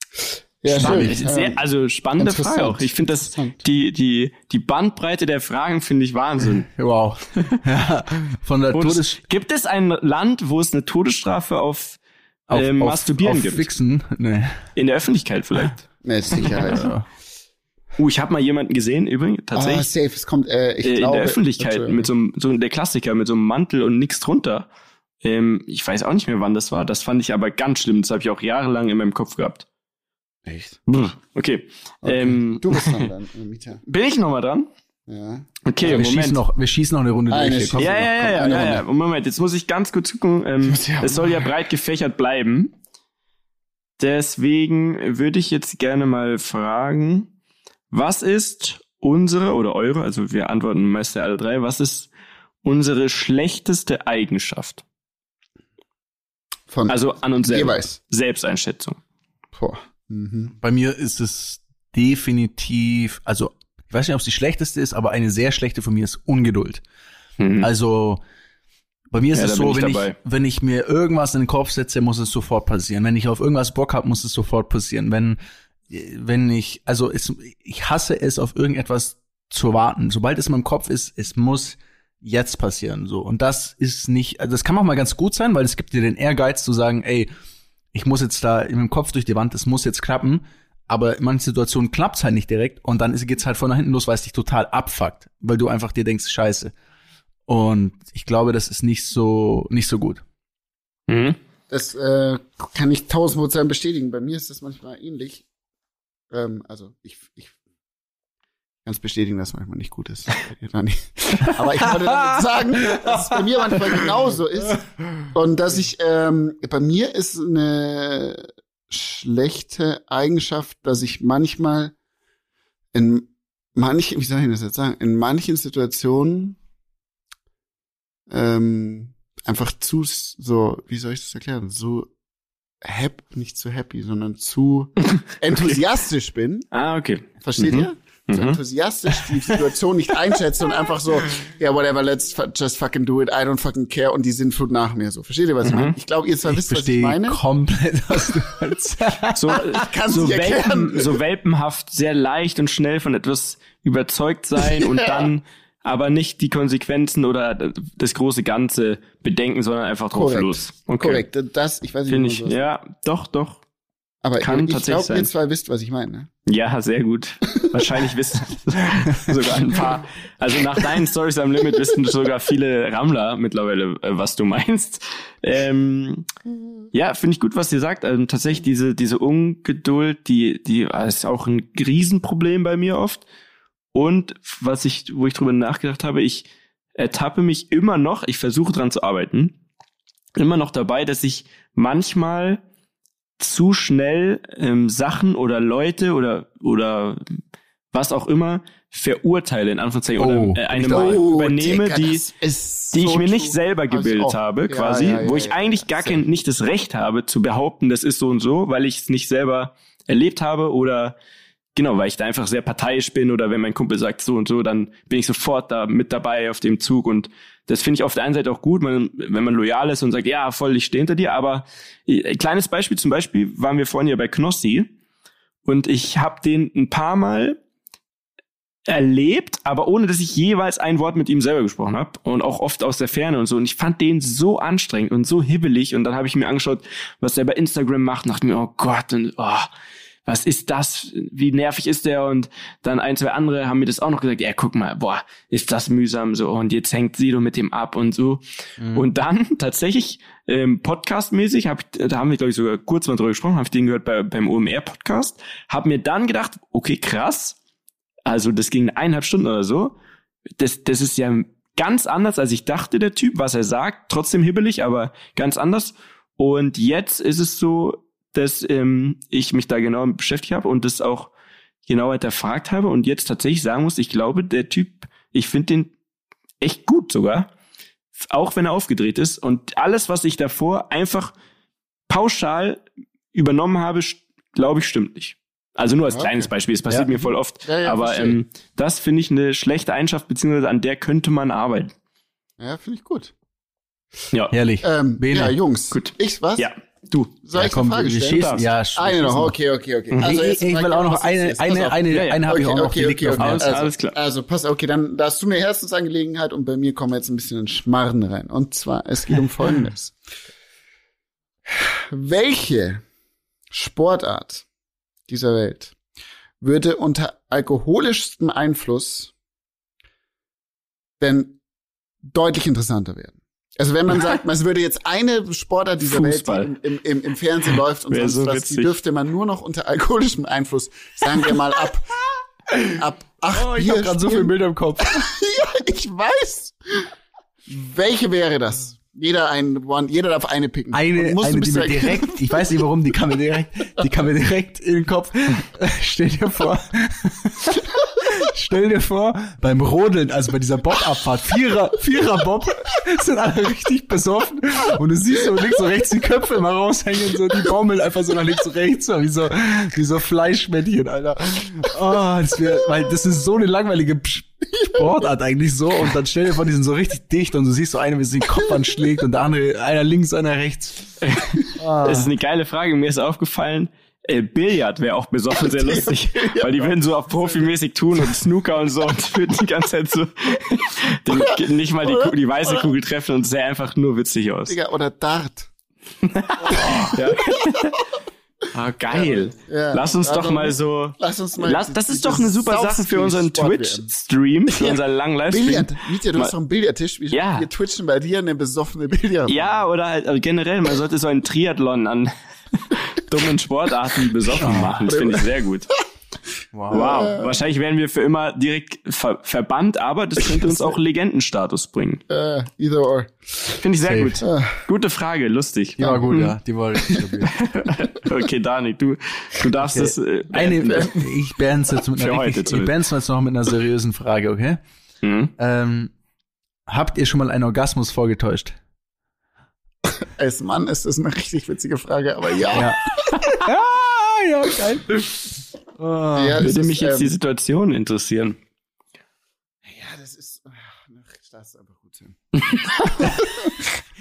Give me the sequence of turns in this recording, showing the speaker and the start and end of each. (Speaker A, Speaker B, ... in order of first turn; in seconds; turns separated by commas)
Speaker A: 0.6-1.6, Speaker B: 0.7-6.7, Speaker C: 0.8-1.2, Speaker A: 2.2-3.6, Speaker C: 6.7-9.2, Speaker B: 8.7-12.0, Speaker C: 12.5-14.6, Speaker B: 12.5-13.7, Speaker B: 14.8-16.8, Speaker A: 16.0-16.9, Speaker C: 16.6-17.1, Speaker B: 18.0-19.9, Speaker A: 19.5-22.1, Speaker B: 20.8-24.7, Speaker B: 25.2-29.6, Speaker A: 30.4-30.8, Speaker B: 30.9-33.1, Speaker A: 32.0-33.8, Speaker B: 33.9-34.7, Speaker A: 35.1-36.0, Speaker B: 35.6-36.4, Speaker C: 35.8-38.6, Speaker A: 37.3-38.8, Speaker B: 37.8-42.7, Speaker A: 40.6-41.5, Speaker B: 44.0-47.3, Speaker B: 47.9-52.1, Speaker B: 52.6-54.8, Speaker A: 56.7-58.0, Speaker B: 56.9-59.0, Speaker A: 59.5-60.5, Speaker C: 60.5-66.8, Speaker B: 67.4-67.7, Speaker C: 67.6-68.2, Speaker C: 69.1-75.4, Speaker B: 69.3-70.1, Speaker C: 75.9-87.3, Speaker C: 87.9-96.7, Speaker C: 97.5-100.2, Speaker B: 101.1-101.4, Speaker A: 101.7-105.4, Speaker A: 106.3-107.5, Speaker A: 108.8-121.9, Speaker A: 122.9-126.6, Speaker A: 128.3-132.1, Speaker A: 132.8-136.7, Speaker B: 136.7-138.6, Speaker A: 137.4-147.4, Speaker B: 145.6-145.9, Speaker C: 146.4-149.6, Speaker B: 149.3-161.2, Speaker A: 149.7-151.2, Speaker A: 154.8-155.3, Speaker A: 160.1-162.6, Speaker B: 162.1-163.6, Speaker A: 164.2-166.3, Speaker B: 164.4-165.3, Speaker B: 166.4-176.3, Speaker B: 176.9-183.2, Speaker B: 183.9-189.5, Speaker B: 190.3-192.6, Speaker B: 193.4-197.4, Speaker B: 197.9-202.2, Speaker C: 200.2-201.2, Speaker A: 200.9-206.2, Speaker B: 202.9-211.1, Speaker B: 211.7-224.9, Speaker B: 225.6-227.6, Speaker B: 228.9-239.7, Speaker B: 240.2-248.4, Speaker C: 248.8-249.1, Speaker B: 248.9-257.6, Speaker B: 258.2-259.9, Speaker B: 260.6-271.3, Speaker B: 271.9-275.9, Speaker B: 276.6-277.5, Speaker B: 278.3-281.3, Speaker B: 282.1-291.9, Speaker A: 286.1-286.5, Speaker A: 287.6-288.4, Speaker A: 292.6-293.3, Speaker C: 294.5-295.5, Speaker A: 294.8-296.7, Speaker B: 295.9-297.3, Speaker A: 297.4-310.1, Speaker C: 297.5-299.6, Speaker B: 298.4-298.6, Speaker C: 300.2-303.8, Speaker B: 302.1-302.4, Speaker B: 303.4-304.1, Speaker A: 311.7-313.0, Speaker A: 313.7-314.6, Speaker A: 315.3-315.9, Speaker A: 316.6-319.3, Speaker A: 321.2-321.6, Speaker A: 322.3-332.1, Speaker B: 326.0-326.7, Speaker B: 328.1-328.9, Speaker A: 332.9-337.1, Speaker C: 333.5-335.2, Speaker A: 337.7-342.6, Speaker C: 340.9-371.1, Speaker B: 371.2-384.7, Speaker C: 371.8-372.3, Speaker A: 375.6-376.9, Speaker A: 382.0-382.9, Speaker A: 384.7-385.7, Speaker B: 386.2-388.0, Speaker A: 386.7-387.7, Speaker B: 388.7-396.5, Speaker A: 389.1-394.1, Speaker A: 394.7-399.8, Speaker B: 397.3-397.7, Speaker B: 399.5-405.9, Speaker C: 404.6-405.0, Speaker A: 404.6-405.9, Speaker C: 406.7-407.2, Speaker A: 406.9-407.6, Speaker B: 406.9-412.2, Speaker A: 410.5-410.8, Speaker A: 412.3-413.8, Speaker B: 413.8-416.5, Speaker C: 414.1-414.4, Speaker A: 414.4-414.8, Speaker A: 416.0-416.5, Speaker C: 416.0-417.5, Speaker B: 417.1-421.2, Speaker C: 419.9-424.8, Speaker B: 422.1-422.9, Speaker B: 425.2-425.5, Speaker C: 425.6-426.1, Speaker C: 426.9-428.8, Speaker A: 430.1-433.6, Speaker C: 432.7-433.0, Speaker C: 433.5-435.4, Speaker C: 436.0-436.6, Speaker A: 436.3-437.3, Speaker B: 436.6-438.6, Speaker A: 439.8-443.8